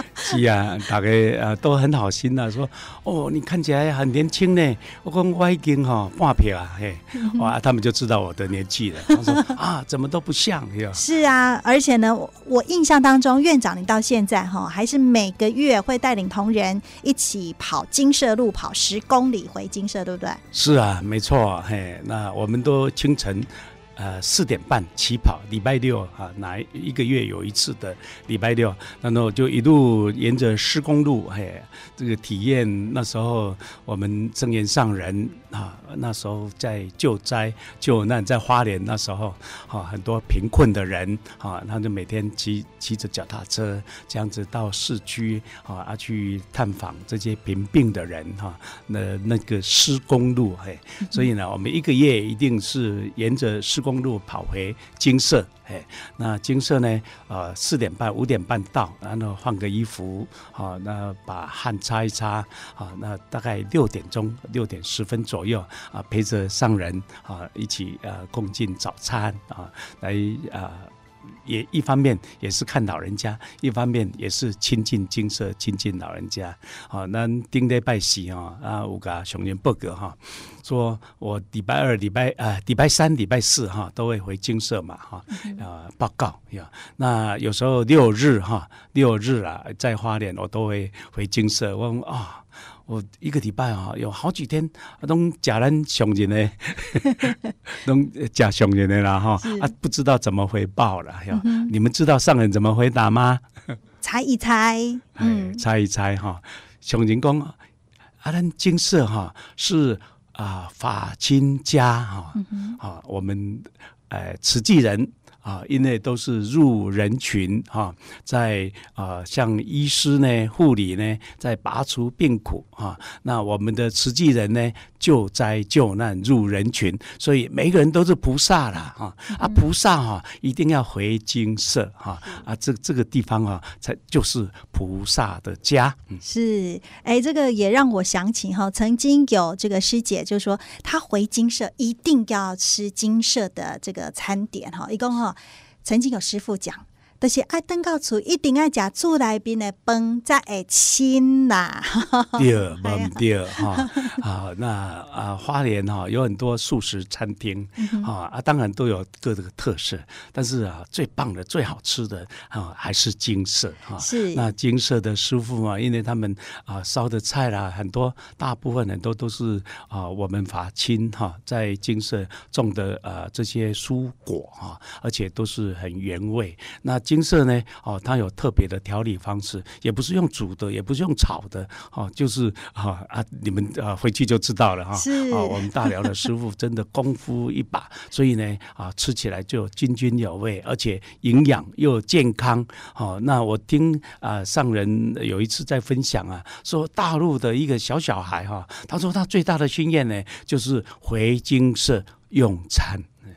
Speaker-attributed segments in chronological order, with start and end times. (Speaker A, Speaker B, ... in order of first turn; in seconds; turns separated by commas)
Speaker A: 0.2-11.0, Speaker B: 7.2-7.5, Speaker B: 10.9-20.4, Speaker A: 20.5-70.9, Speaker B: 51.0-51.3, Speaker A: 71.4-103.4, Speaker B: 85.3-85.6, Speaker B: 99.4-99.7, Speaker B: 101.3-101.7, Speaker B: 104.0-105.6, Speaker A: 105.2-107.6, Speaker A: 108.2-136.2, Speaker B: 112.3-112.8, Speaker B: 129.3-129.6, Speaker B: 136.2-153.9, Speaker A: 152.4-203.1, Speaker B: 157.8-158.1, Speaker B: 164.0-164.5, Speaker B: 184.9-185.9